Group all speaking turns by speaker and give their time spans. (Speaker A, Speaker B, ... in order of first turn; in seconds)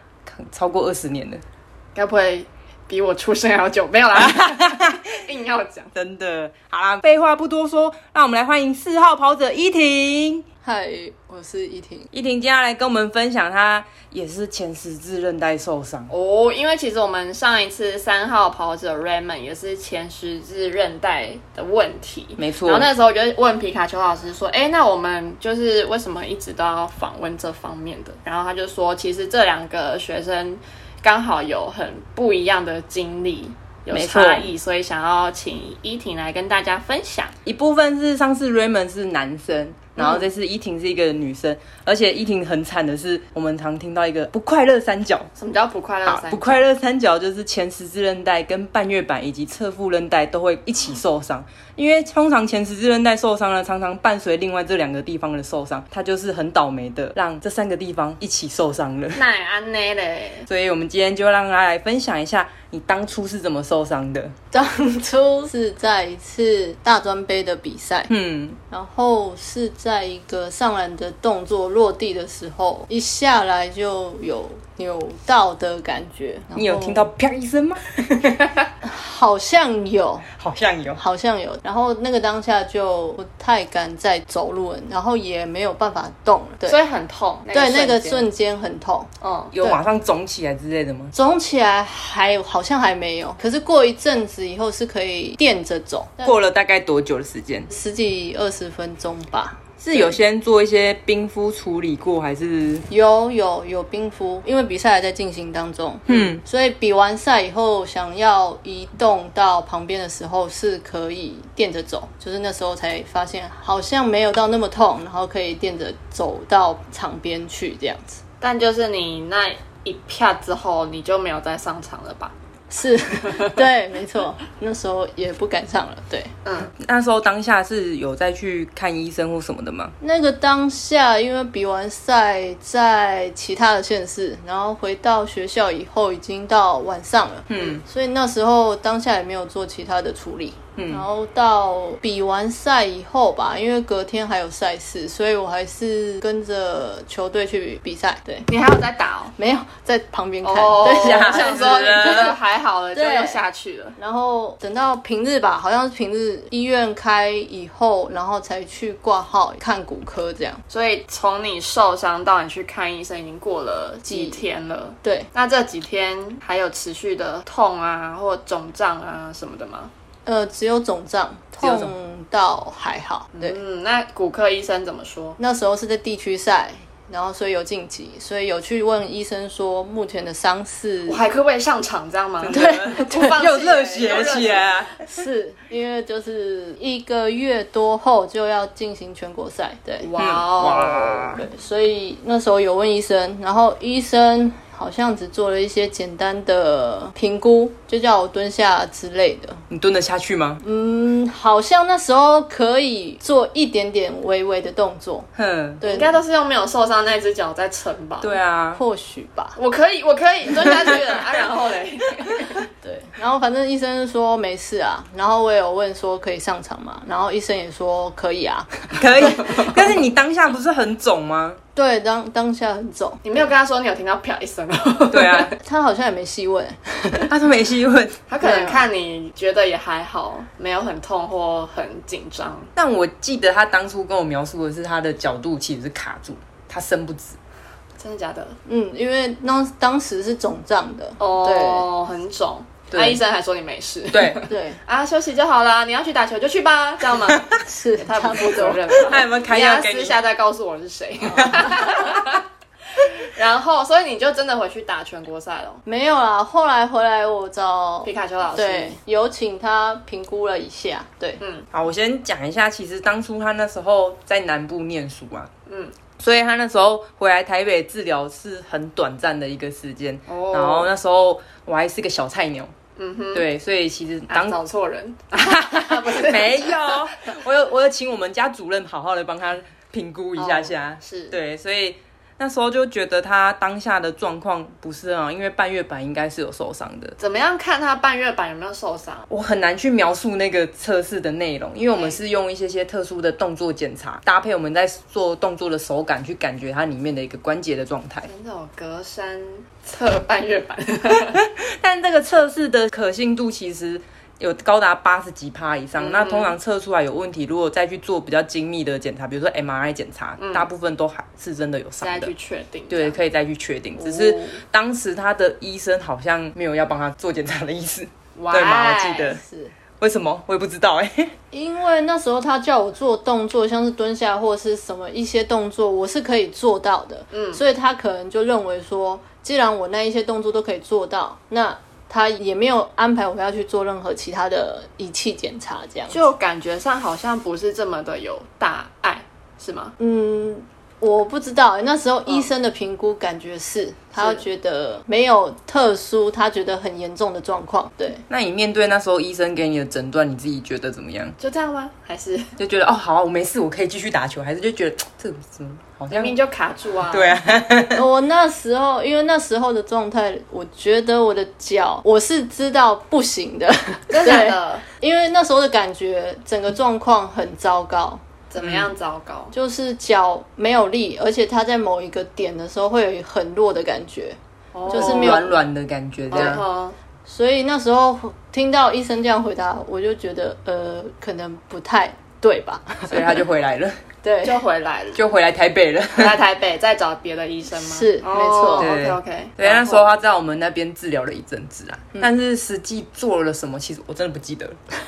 Speaker A: 0.2-1.4, 4.2-5.0, 5.9-10.4, 12.1-16.1, 22.4-22.9, 33.9-34.5, 37.4-45.3, 46.0-59.2, 60.5-64.3, 68.1-68.6, 76.5-78.5, 80.3-81.0, 89.5-91.1, 96.2-97.7, 99.8-102.9, 106.1-106.4, 126.8-129.9, 137.5-137.8, 140.8-141.1, 150.9-152.3, 171.6-171.9, 182.4-185.0, 190.2-191.4, 199.7-200.6, 205.3-205.8, 208.2-208.8, 218.9-221.6, 225.1-225.5, 227.3-228.3, 232.8-237.4, 242.9-243.2, 244.1-244.4, 248.9-250.2, 251.4-252.3, 261.7-265.5, 266.2-272.7, 273.3-274.6, 275.3-287.1, 289.3-298.3, 301.1-312.3, 312.9-319.4, 320.0-321.4, 348.3-351.4, 352.6-356.4, 357.1-358.0, 368.6-368.9, 374.9-376.6, 383.1-384.0, 385.1-386.4, 388.8-394.8
Speaker B: 1.9-5.9, 16.1-37.3, 40.0-40.2, 45.4-46.6, 59.1-60.5, 86.6-88.3, 89.2-89.5, 118.4-122.3, 126.4-126.7, 148.5-149.3, 150.4-153.9, 160.7-169.9, 173.3-175.4, 181.1-184.8, 190.0-191.3, 205.8-208.4, 209.6-212.6, 219.2-219.8, 223.2-225.5, 228.3-232.7, 238.0-238.6, 241.2-252.4, 253.0-255.8, 258.0-258.9, 261.4-261.7, 265.7-265.9, 270.3-270.9, 272.9-273.5, 274.3-277.0, 280.4-281.4, 287.2-289.2, 298.2-301.4, 305.9-306.6, 310.4-310.7, 312.0-313.2, 314.0-314.6, 318.4-319.3, 327.3-327.6, 336.1-339.9, 344.1-344.4, 351.4-352.6, 356.1-357.4, 364.1-364.8, 368.5-369.5, 374.7-375.5, 376.3-376.9, 384.4-385.2, 386.1-390.1
Speaker C: 10.6-12.1, 64.5-68.1, 68.7-77.1, 78.8-80.3, 80.9-86.8, 87.5-89.1, 91.1-96.4, 97.7-100.2, 102.9-118.2, 122.7-126.3, 130.0-148.5, 149.4-151.3, 152.9-153.4, 154.0-160.6, 164.1-164.4, 165.0-165.3, 170.2-173.6, 175.4-181.2, 182.5-183.4, 185.0-190.1, 191.2-199.6, 200.6-205.3, 205.8-206.2, 208.7-209.6, 212.8-219.3, 221.7-223.2, 225.6-227.3, 228.4-228.8, 238.7-241.8, 244.5-244.8, 247.6-248.9, 251.3-251.6, 255.8-261.4, 319.3-319.7, 321.5-336.2, 340.0-348.2, 357.9-368.2, 369.5-374.4, 374.9-375.5, 377.3-383.4, 384.2-384.6, 387.8-388.9